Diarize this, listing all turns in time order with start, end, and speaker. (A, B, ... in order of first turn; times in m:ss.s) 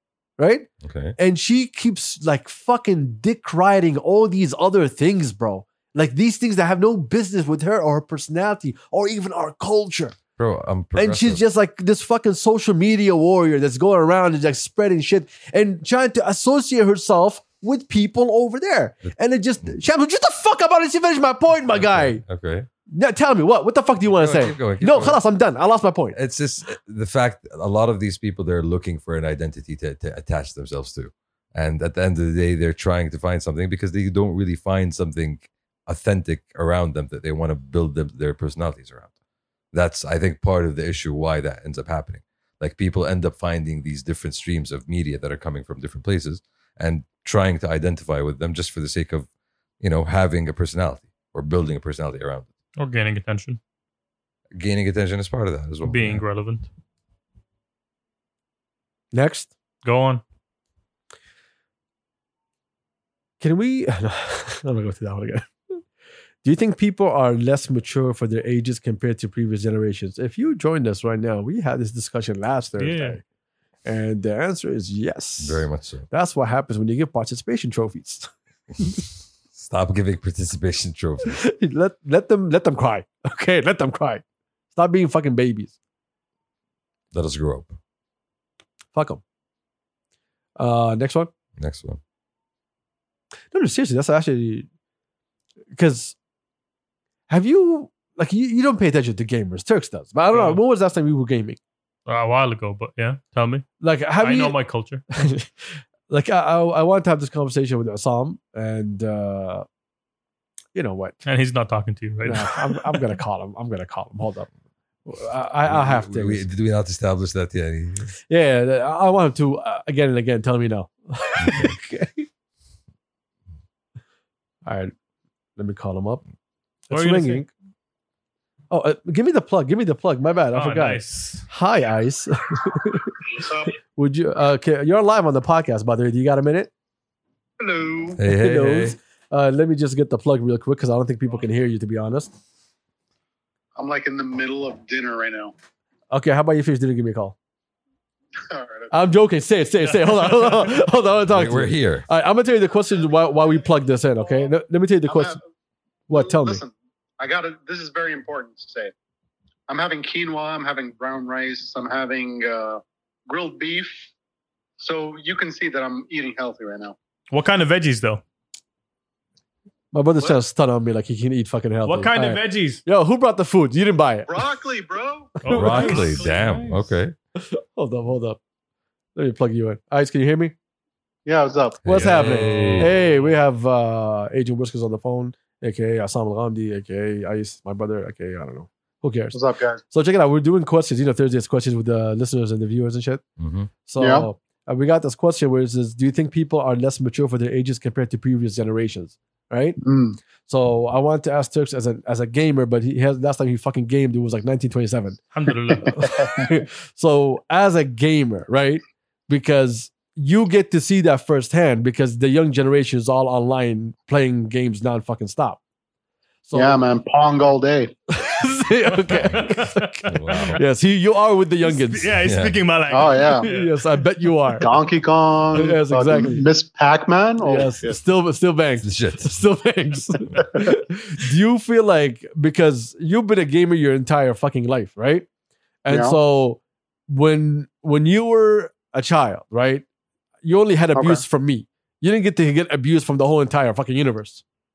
0:00.4-0:10.2 A
0:00.8-0:01.2 B
0:10.4-0:11.4 B
0:11.0-0:22.2 A
0:21.7-0:22.7 B
0:22.9-0:26.2 A
0:24.1-0:25.2 B
0:26.1-0:39.1 B
0:39.7-0:49.3 B
0:49.8-0:52.5 B
0:52.8-0:53.6 C
0:54.6-0:56.2 B
0:55.8-0:56.7 C
0:59.1-0:59.5 A
0:59.8-1:00.2 C
1:03.4-1:05.8 A
1:06.4-1:13.2 A
1:12.8-1:13.2 C
1:13.8-1:19.0 A
1:15.4-1:16.1 B
1:19.6-1:21.4 B
1:21.2-1:24.2 A
1:24.7-1:25.8 A
1:27.1-1:27.8 B
1:28.9-1:29.2 A
1:30.6-1:31.3 A
1:31.6-1:32.0 B
1:33.5-1:34.7 A
1:35.8-1:36.2 A
1:37.3-1:41.6 A
1:40.3-1:40.6 C
1:42.1-1:43.7 C
1:43.8-1:44.6 A
1:44.2-1:45.0 C
1:45.1-1:49.7 A
1:50.8-1:51.2 A
1:51.2-1:53.0 C
1:52.2-1:54.5 A
1:55.1-1:56.5 A
1:55.7-1:58.1 B
1:58.3-2:02.3 A
2:01.4-2:01.8 B
2:04.6-2:04.9 A
2:05.6-2:06.2 A
2:06.9-2:07.5 A
2:06.9-2:07.4 C
2:08.7-2:13.2 A
2:10.5-2:11.5 C
2:13.4-2:13.7 D
2:13.9-2:16.7 A
2:17.6-2:18.2 D
2:18.2-2:19.0 B
2:18.3-2:22.3 A
2:23.8-2:25.5 D
2:26.1-2:27.4 A
2:28.5-2:28.9 D
2:28.9-2:35.4 A
2:31.3-2:32.1 B
2:35.1-2:35.4 D
2:36.1-2:36.6 A
2:36.1-2:38.9 D
2:39.7-2:44.1 D
2:44.8-2:47.0 D
2:47.3-2:48.2 C
2:49.9-2:54.4 A
2:51.9-2:52.8 C
2:54.3-2:56.8 D
2:55.4-2:56.6 C
2:55.5-2:56.1 A
2:55.5-2:57.2 B
2:57.4-2:58.4 A
2:59.2-3:00.6 A
3:01.3-3:01.8 D
3:01.8-3:02.9 B
3:01.9-3:09.4 A
3:02.0-3:03.3 C
3:09.3-3:09.8 D
3:09.9-3:13.2 A
3:13.4-3:13.7 B
3:13.8-3:19.8 A
3:14.0-3:14.3 D
3:19.8-3:20.2 D
3:20.4-3:25.2 A
3:25.3-3:26.0 C
3:25.8-3:35.6 A
3:25.9-3:26.5 D
3:36.5-3:36.8 A
3:36.5-3:38.0 D
3:38.1-3:42.1 A
3:39.1-3:40.6 C
3:40.1-3:40.6 B
3:41.6-3:43.8 C
3:42.2-3:42.6 B
3:42.9-3:43.5 D
3:43.4-3:44.7 A
3:44.6-3:48.0 D
3:45.5-3:46.5 A
3:47.4-3:55.3 A
3:48.8-3:49.4 B
3:55.8-3:59.8 A
3:55.9-3:56.2 D
4:00.4-4:04.4 A
4:01.0-4:01.2 D